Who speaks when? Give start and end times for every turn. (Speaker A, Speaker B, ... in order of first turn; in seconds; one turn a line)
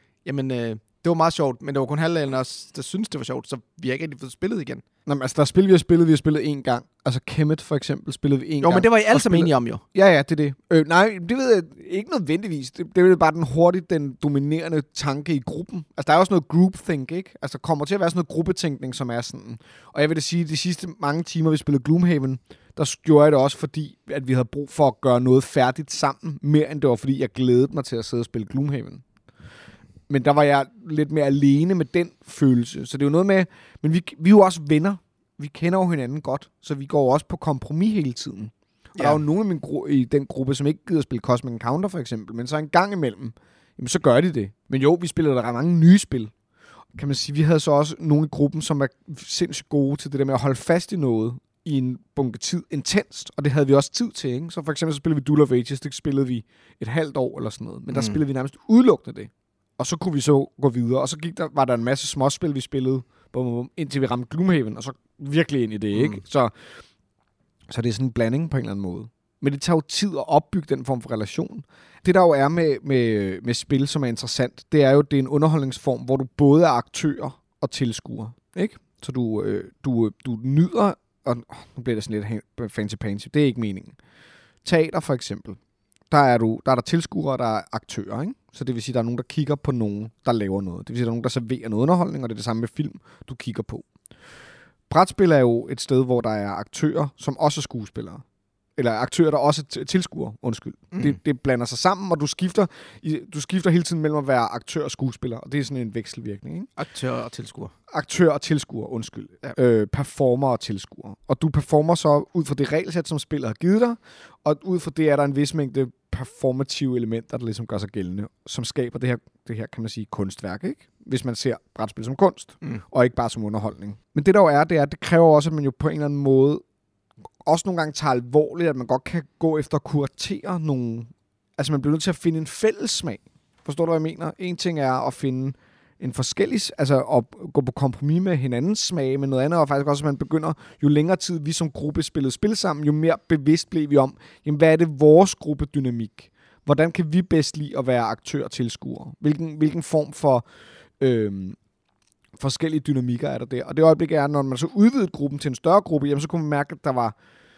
Speaker A: 0.2-4.8
Speaker B: 5.0-29.0
Speaker A: 8.6-9.8
Speaker B: 30.1-46.3
Speaker A: 39.0-39.2
Speaker B: 46.9-66.9
Speaker A: 57.9-58.2
Speaker A: 65.9-66.2
Speaker B: 67.7-84.0
Speaker B: 84.6-85.6
Speaker B: 86.1-94.4
Speaker B: 94.9-98.2
Speaker B: 98.8-106.7
Speaker A: 100.9-101.2
Speaker A: 106.8-107.7
Speaker B: 107.9-126.6
Speaker B: 127.4-151.6
Speaker B: 152.3-157.1